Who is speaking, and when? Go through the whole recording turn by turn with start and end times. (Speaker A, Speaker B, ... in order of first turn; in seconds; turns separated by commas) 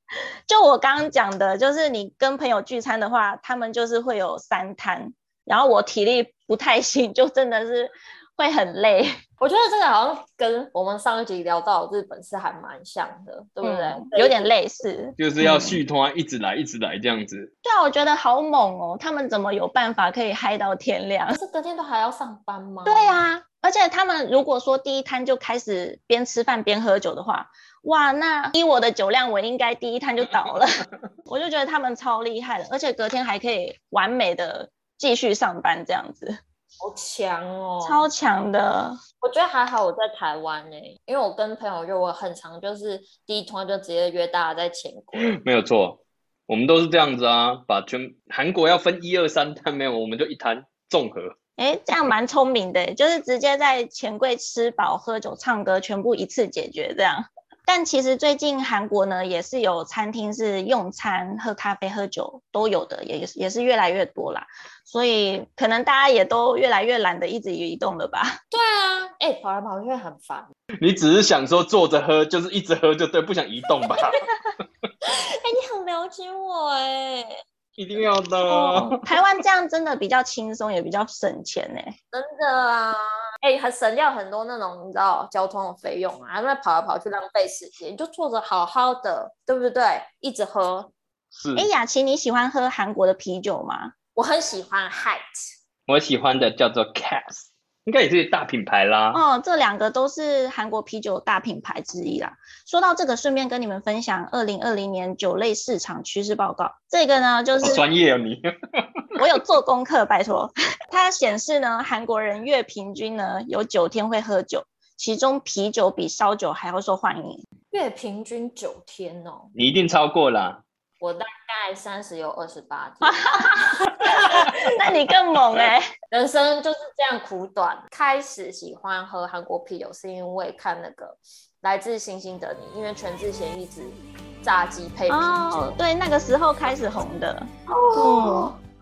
Speaker A: 0.5-9.1, Speaker B: 9.4-14.5, Speaker A: 13.6-15.8, Speaker C: 15.2-17.5, Speaker A: 17.6-21.4, Speaker B: 21.3-23.2, Speaker A: 22.9-36.4, Speaker B: 36.8-38.0, Speaker A: 37.8-39.0, Speaker B: 39.2-45.4, Speaker C: 45.2-51.3, Speaker A: 51.6-68.4, Speaker B: 68.5-70.5, Speaker C: 70.8-74.2, Speaker B: 75.0-77.3, Speaker C: 77.8-79.0, Speaker A: 78.5-81.9, Speaker B: 82.1-90.9, Speaker C: 91.3-91.7, Speaker A: 91.5-93.9, Speaker B: 94.1-95.5, Speaker C: 95.9-99.2, Speaker A: 99.1-107.8, Speaker C: 107.6-108.8, Speaker A: 109.2-117.4, Speaker B: 117.7-119.5, Speaker C: 119.5-120.6, Speaker B: 121.0-124.7, Speaker A: 123.0-125.9, Speaker B: 126.1-135.8, Speaker A: 135.1-138.5, Speaker B: 137.7-138.6